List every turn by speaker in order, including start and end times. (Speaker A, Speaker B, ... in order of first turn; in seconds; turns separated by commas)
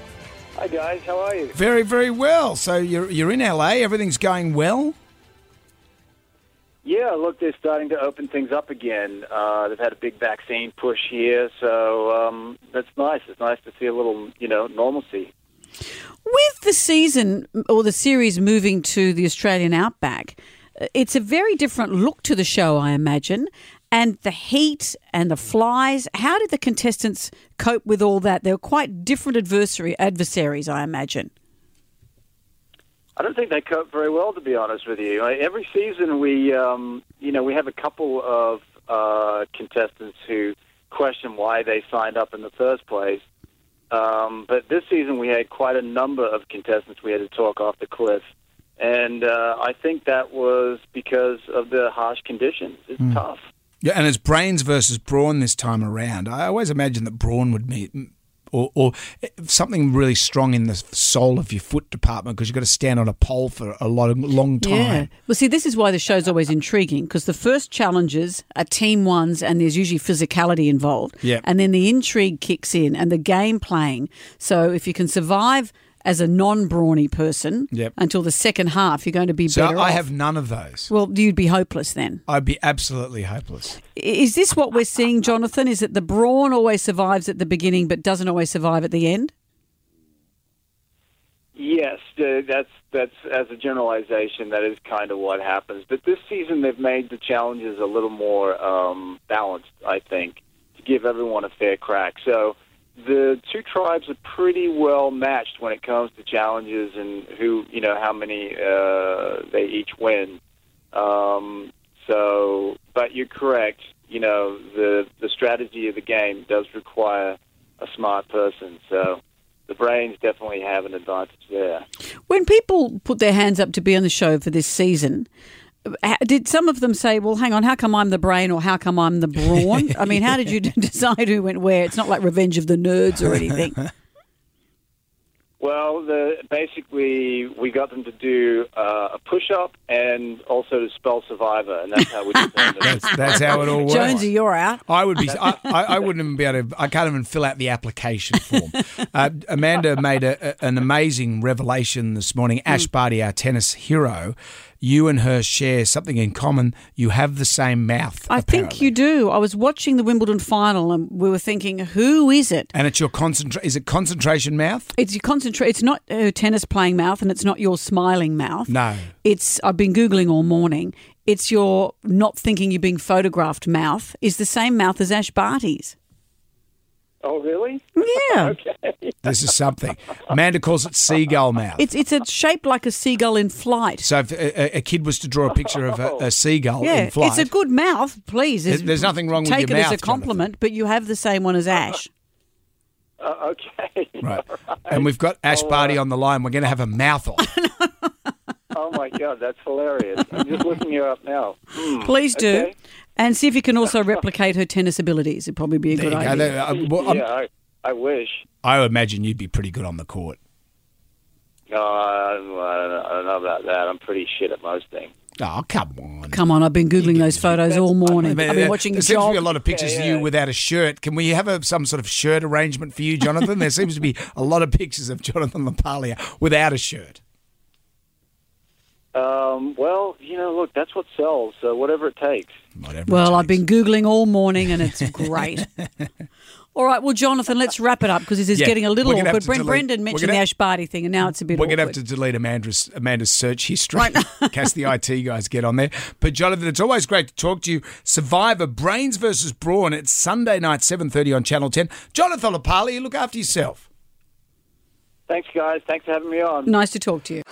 Speaker A: 0.6-1.6, Speaker B: 1.5-5.0, Speaker A: 6.8-15.3, Speaker C: 16.2-31.3, Speaker A: 33.2-43.2, Speaker A: 43.9-48.2, Speaker A: 48.8-53.4, Speaker B: 53.8-65.1, Speaker C: 64.6-80.0, Speaker B: 79.5-80.9, Speaker C: 80.9-82.2, Speaker B: 82.3-83.8, Speaker C: 83.9-89.3, Speaker A: 91.5-110.4, Speaker A: 110.9-121.8, Speaker C: 122.3-125.3, Speaker C: 125.8-133.8, Speaker A: 135.6-144.2, Speaker B: 142.8-144.3, Speaker C: 143.7-144.8, Speaker B: 144.8-158.9, Speaker C: 158.3-162.7, Speaker B: 162.7-164.9, Speaker C: 164.9-175.9, Speaker B: 168.7-169.1, Speaker A: 177.2-179.2, Speaker C: 177.9-178.5, Speaker B: 179.2-181.8, Speaker C: 181.8-184.1, Speaker B: 184.0-187.5, Speaker A: 185.9-186.2, Speaker C: 186.8-192.1, Speaker B: 188.7-190.4, Speaker A: 193.2-196.0, Speaker B: 194.2-197.5, Speaker A: 198.7-202.7, Speaker C: 202.0-206.5, Speaker B: 205.9-207.2, Speaker A: 206.5-208.4, Speaker B: 208.6-210.4, Speaker A: 211.7-215.1, Speaker B: 215.4-216.4, Speaker C: 216.3-219.4, Speaker B: 217.0-227.2, Speaker A: 219.7-220.2, Speaker A: 229.1-232.5, Speaker B: 232.8-233.6, Speaker C: 233.1-235.7, Speaker C: 236.7-241.9, Speaker B: 238.5-240.4, Speaker B: 241.5-253.8, Speaker C: 244.0-244.5, Speaker A: 255.3-256.7, Speaker C: 256.7-257.4